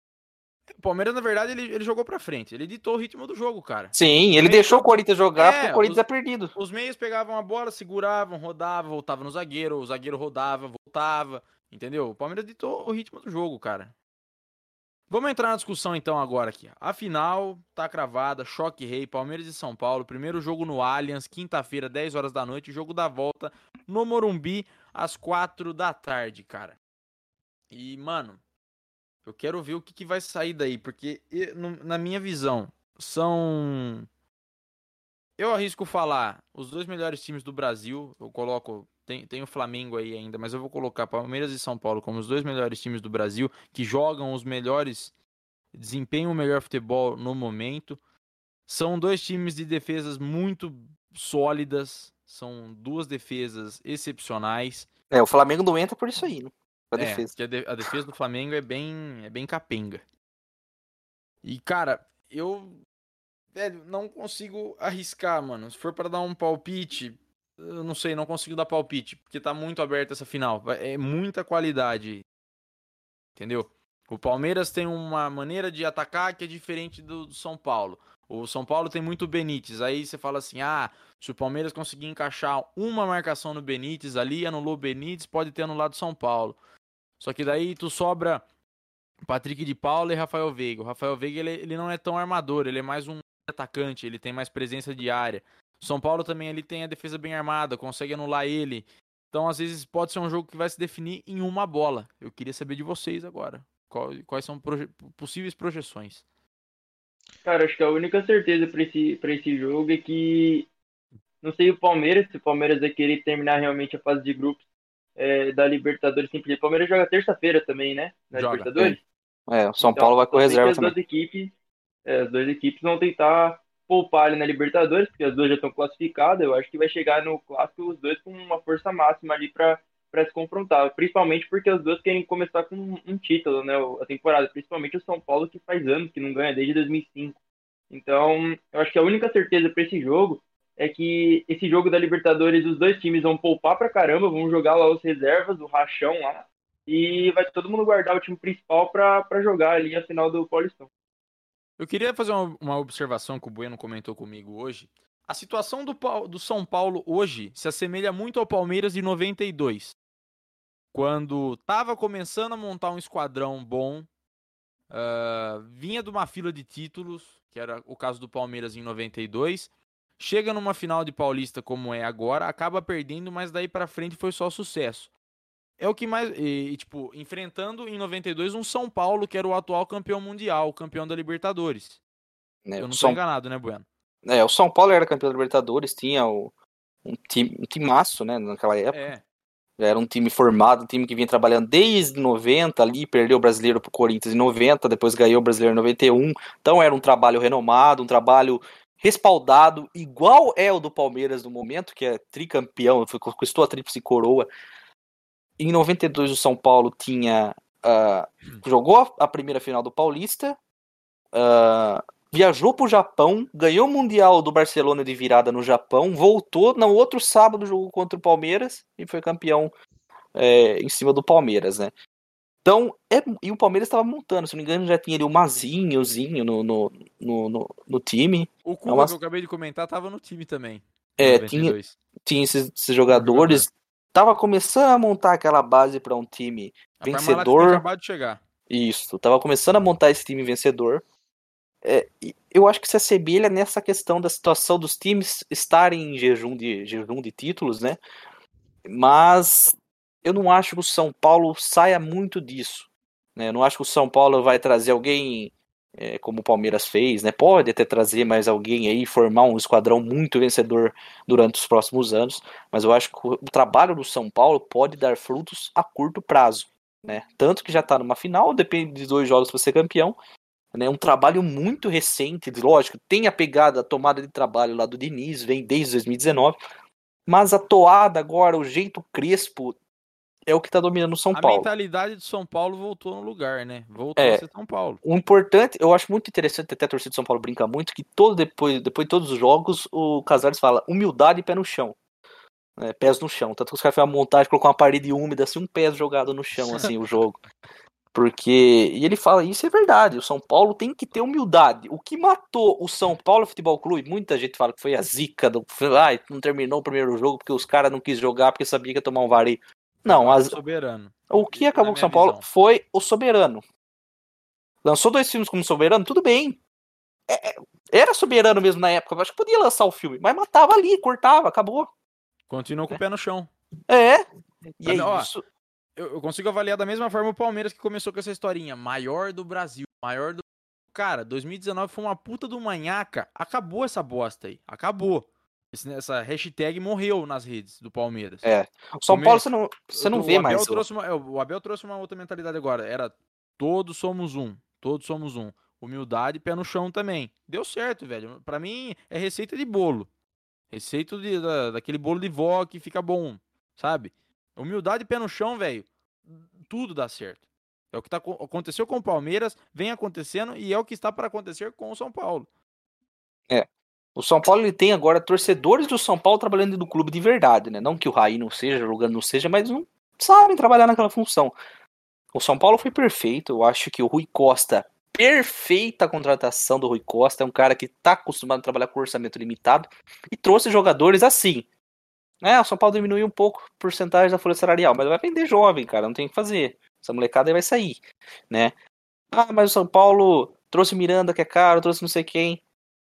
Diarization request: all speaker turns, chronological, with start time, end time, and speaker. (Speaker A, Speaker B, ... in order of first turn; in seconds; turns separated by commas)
Speaker A: 0.8-6.0, Speaker B: 3.9-6.5, Speaker A: 6.6-13.9, Speaker A: 15.1-26.8, Speaker A: 27.7-28.4, Speaker A: 29.2-34.1, Speaker A: 35.4-45.1, Speaker A: 45.7-48.0, Speaker A: 48.7-54.9, Speaker B: 55.1-57.3, Speaker A: 57.0-60.0, Speaker A: 61.4-62.8, Speaker A: 63.5-72.2, Speaker A: 73.4-86.6, Speaker A: 87.2-88.4, Speaker A: 89.3-106.2, Speaker C: 107.5-110.7, Speaker C: 111.4-114.6, Speaker C: 115.2-119.0, Speaker A: 118.3-118.7, Speaker B: 119.5-121.0, Speaker C: 119.8-121.5, Speaker C: 122.1-137.4, Speaker C: 137.9-150.9, Speaker A: 151.8-160.0, Speaker A: 160.9-164.1, Speaker A: 164.9-175.1, Speaker A: 175.8-182.0, Speaker B: 182.7-183.2, Speaker A: 182.8-183.9, Speaker B: 184.3-186.5, Speaker B: 187.1-189.0, Speaker A: 188.9-189.2, Speaker B: 189.8-204.5, Speaker B: 205.6-210.6, Speaker B: 211.3-219.7, Speaker B: 220.3-221.9, Speaker B: 222.6-229.2, Speaker A: 228.7-232.0, Speaker B: 231.2-237.8, Speaker A: 233.1-233.7, Speaker A: 237.0-238.4, Speaker B: 238.7-241.0, Speaker B: 241.8-248.0, Speaker B: 248.9-270.2, Speaker B: 270.7-276.6, Speaker B: 277.3-279.8, Speaker B: 280.5-281.7, Speaker A: 281.3-285.0, Speaker B: 284.2-284.4, Speaker B: 285.0-292.0, Speaker B: 292.8-297.4, Speaker B: 298.1-310.6, Speaker A: 310.1-312.5, Speaker B: 311.3-313.6, Speaker B: 314.8-316.6, Speaker B: 317.3-321.9, Speaker A: 322.5-323.5, Speaker B: 323.9-324.2, Speaker B: 324.8-325.4, Speaker A: 324.9-325.3, Speaker A: 326.0-330.4, Speaker A: 330.9-338.4, Speaker B: 338.4-340.9, Speaker A: 339.1-350.1, Speaker A: 350.7-362.5, Speaker B: 363.5-371.6, Speaker B: 372.3-381.7, Speaker B: 382.4-388.7, Speaker B: 389.3-392.6